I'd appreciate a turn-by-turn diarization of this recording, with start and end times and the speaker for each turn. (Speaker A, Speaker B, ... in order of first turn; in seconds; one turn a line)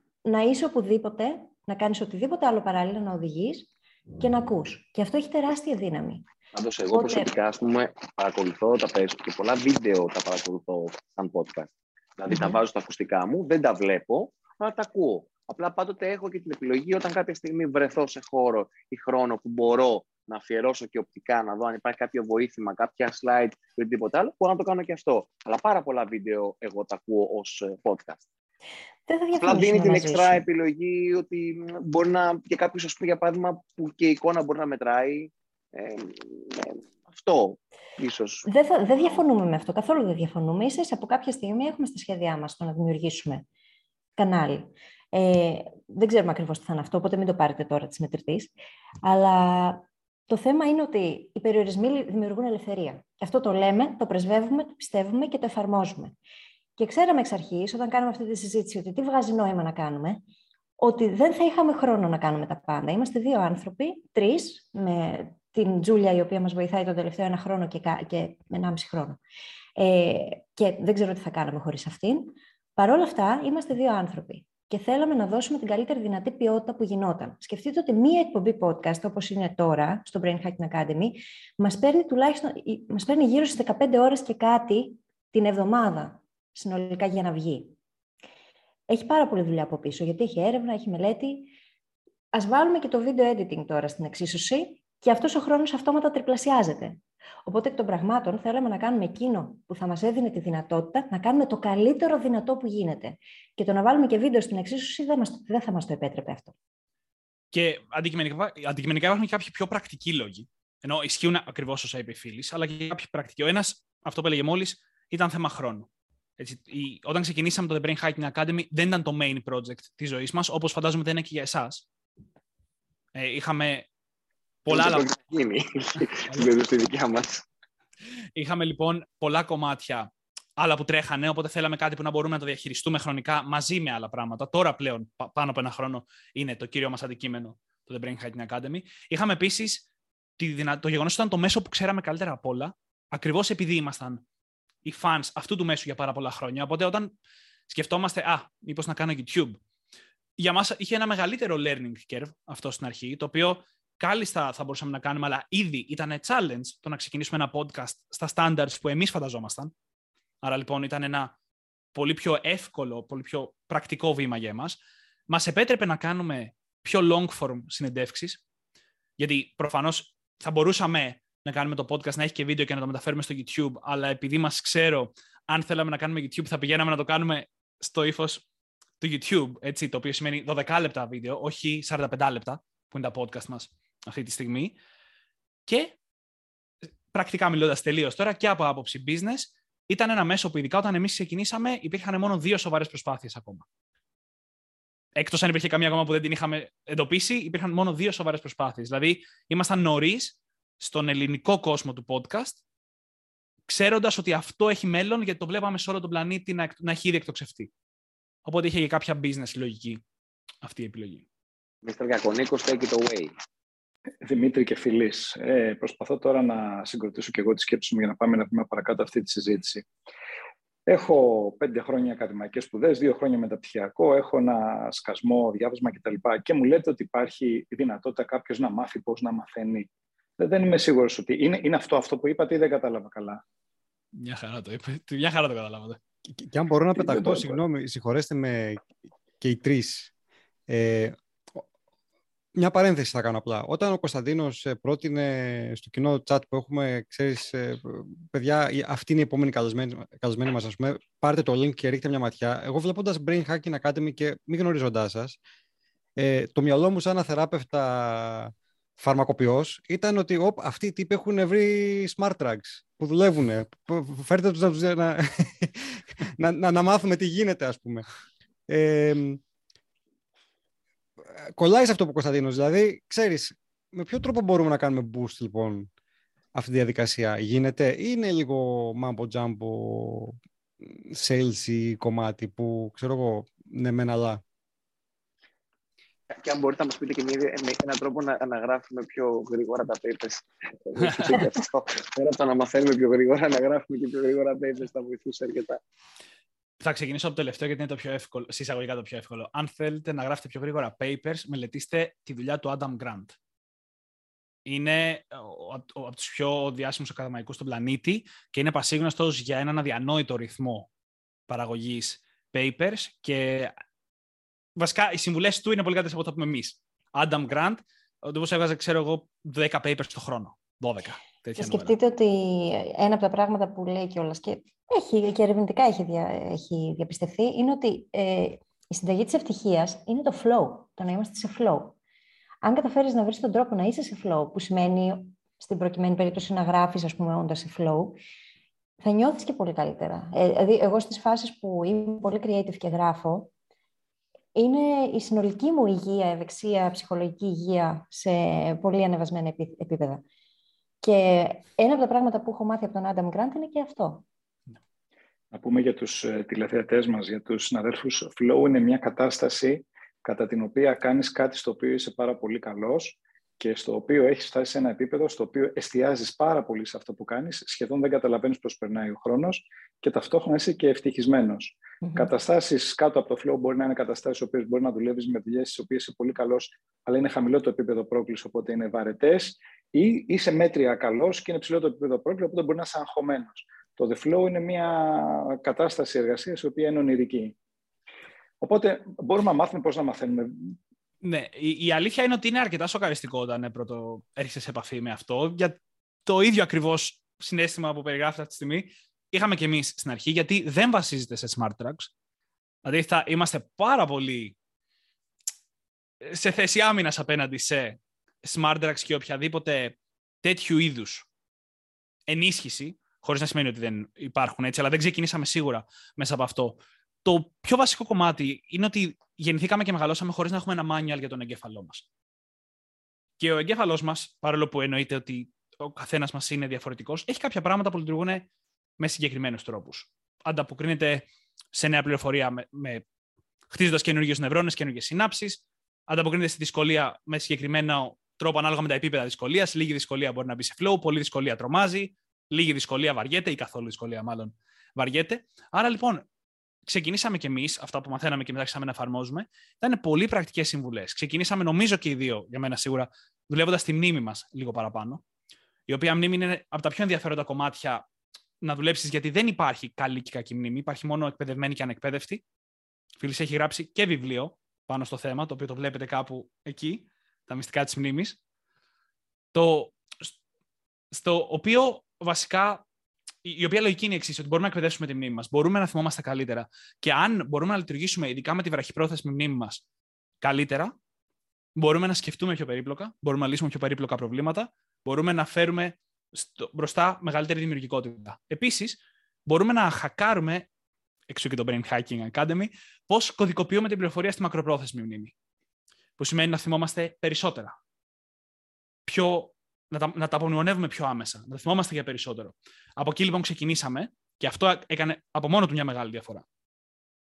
Speaker A: 0.2-6.2
Speaker B: 6.5-28.2
Speaker A: 6.9-7.3
Speaker A: 12.3-12.6
Speaker A: 29.1-30.5
Speaker B: 29.4-38.5
Speaker A: 38.4-43.4
Speaker A: 44.2-48.5
Speaker A: 49.0-56.1
Speaker A: 56.8-60.2
Speaker A: 60.8-69.2
Speaker A: 69.8-87.8
Speaker A: 88.9-91.5
Speaker A: 92.3-106.5
Speaker C: 107.5-115.9
Speaker C: 116.4-121.8
Speaker C: 123.1-123.9
Speaker C: 124.6-125.1
Speaker B: 124.7-127.4
Speaker C: 128.3-139.9
Speaker C: 140.4-144.2
Speaker C: 144.8-147.1
Speaker C: 147.7-149.6
Speaker C: 150.4-159.7
Speaker C: 160.4-161.3
Speaker C: 161.9-168.4
Speaker C: 169.2-178.4
Speaker C: 179.0-184.8
Speaker C: 185.7-185.9
Speaker C: 187.1-193.7
Speaker C: 195.2-202.6
Speaker C: 203.7-207.7
Speaker C: 208.4-210.0
Speaker C: 210.6-211.2
Speaker B: 211.8-213.3
Speaker D: 214.2-219.8
Speaker D: 220.9-233.4
Speaker C: 234.1-236.0
Speaker E: 236.3-238.8
Speaker D: 236.9-237.6
Speaker E: 239.4-240.1
Speaker E: 240.7-241.6
Speaker E: 242.5-255.4
Speaker E: 256.1-268.0
Speaker E: 268.7-269.4
Speaker E: 271.3-275.9
Speaker E: 276.5-284.4
Speaker B: 286.3-295.8
Speaker C: 296.8-303.4
Speaker C: 304.6-310.9
Speaker C: 311.5-313.7
Speaker C: 314.8-321.9
Speaker A: 321.6-331.9
Speaker A: 332.6-338.2
Speaker A: 339.0-343.5
Speaker A: 344.5-350.2
Speaker A: 351.0-354.2
Speaker D: 355.5-387.6
Speaker D: 388.6-390.8
Speaker C: 391.2-402.1
Speaker C: 402.8-404.5
Speaker C: 406.2-411.3
Speaker C: 412.3-422.1
Speaker C: 423.4-428.5
Speaker C: 429.0-433.0
Speaker C: 433.7-446.2
Speaker C: 446.9-455.2
Speaker C: 455.9-458.0
Speaker C: 458.6-462.4
Speaker C: 463.2-468.4
Speaker C: 469.5-470.3
Speaker C: 471.1-472.8
Speaker C: 473.4-479.8
Speaker C: 480.4-480.9
Speaker C: 481.8-490.7
Speaker C: 491.3-495.3
Speaker C: 496.2-497.8
Speaker C: 499.0-506.4